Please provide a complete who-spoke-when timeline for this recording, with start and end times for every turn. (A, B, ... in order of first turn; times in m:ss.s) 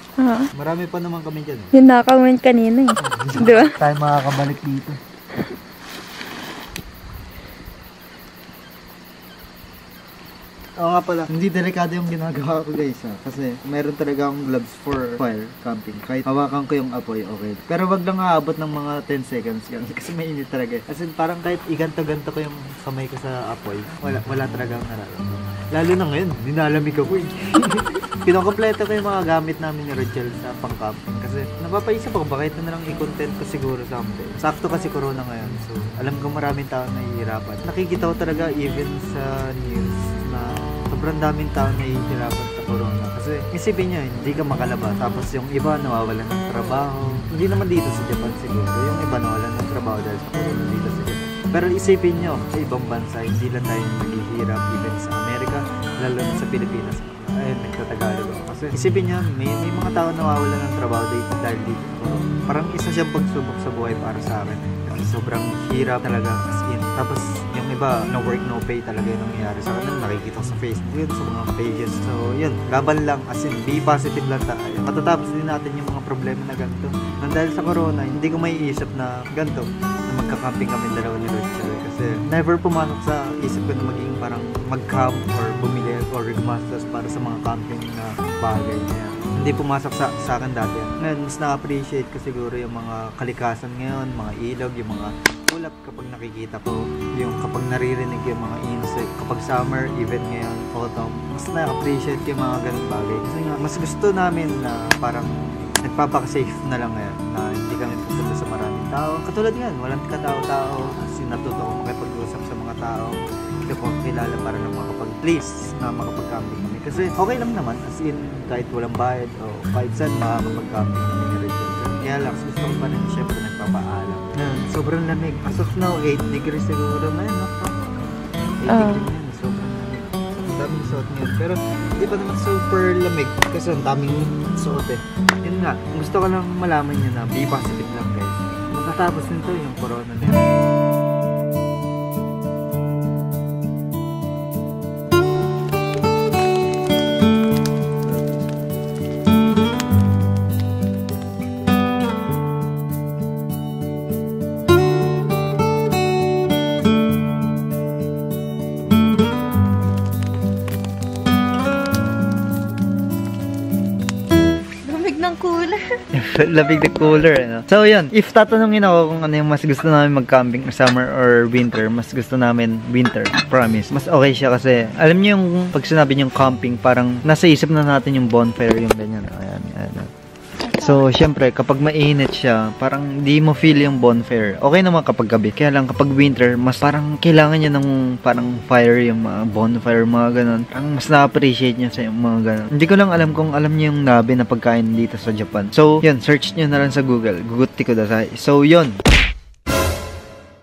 0:00.2-0:00.5 A
0:00.5-0:01.8 B
0:01.7-0:03.8 A
0:03.0-0:05.0 B
0:10.8-2:07.9 B
2:08.6-2:20.4 B
2:08.7-2:09.0 A
2:44.8-2:45.9 A
2:46.1-3:00.1 B
3:00.6-3:01.0 A
3:00.8-3:19.0 B